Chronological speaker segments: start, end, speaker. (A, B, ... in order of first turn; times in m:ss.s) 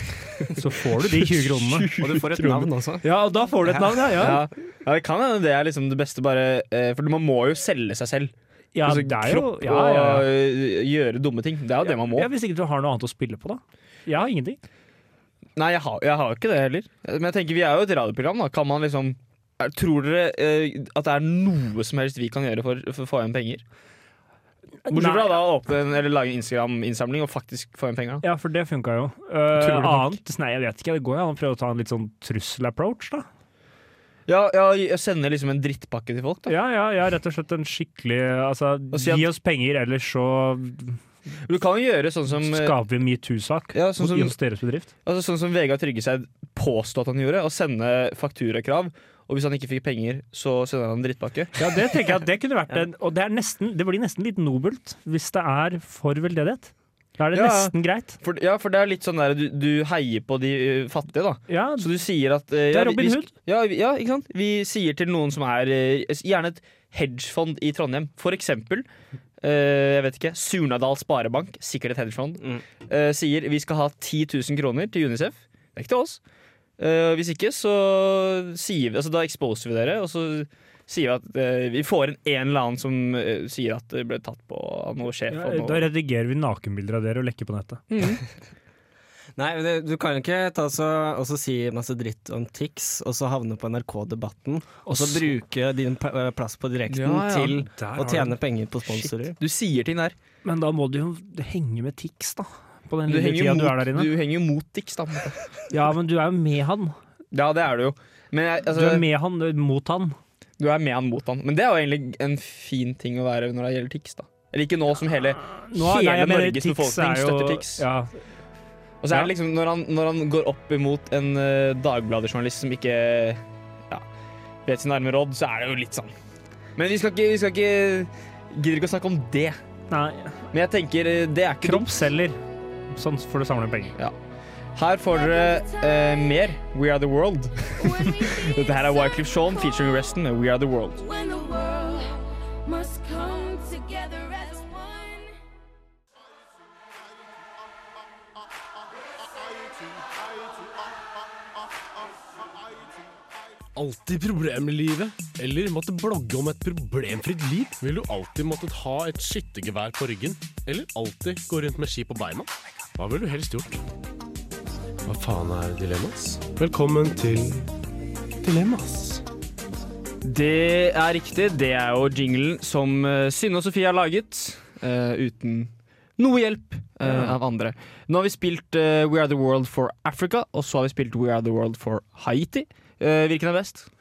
0:00.5-0:01.9 A
0:00.9-0:02.7 B
0:02.0-0:03.0 C
0:03.0-0:04.5 A
0:04.2-0:12.3 B
0:08.8-0:10.3 A
0:11.8-0:14.6 A
0:15.6-0:23.6 B
0:24.8-0:25.4 A
0:24.9-0:28.2 B
0:28.2-0:33.3 A
0:29.6-0:30.2 B
0:34.3-0:36.6 B
0:36.5-0:41.0 A
0:38.9-0:39.3 B
0:41.4-0:42.8 B
0:42.3-0:44.9 A
0:43.7-0:44.4 B
0:45.0-0:51.7 B
0:51.6-0:58.2 A
0:57.3-1:08.9 B
1:01.5-1:01.9 A
1:02.7-1:03.3 A
1:09.4-1:16.2 B
1:16.8-1:25.9 B
1:25.3-1:27.8 A
1:27.9-1:28.2 B
1:29.4-1:39.4 C
1:34.9-1:35.3 A
1:36.9-1:37.7 B
1:37.7-1:38.4 A
1:38.8-1:40.2 B
1:40.4-1:44.1 A
1:43.1-1:45.6 B
1:45.7-1:47.0 A
1:47.3-1:49.0 B
1:48.7-1:50.2 A
1:50.6-1:57.8 B
1:55.4-1:58.2 A
1:59.0-2:04.0 B
2:04.6-2:06.1 B
2:06.8-2:09.6 B
2:09.9-2:10.4 A
2:10.5-2:11.9 B
2:11.6-2:12.4 A
2:12.9-2:14.0 A
2:14.8-2:21.0 B
2:15.4-2:15.7 D
2:17.8-2:19.8 D
2:21.0-2:25.4 D
2:33.8-2:43.8 E
2:45.0-2:47.7 E
2:48.4-2:49.2 E
2:50.2-3:03.9 B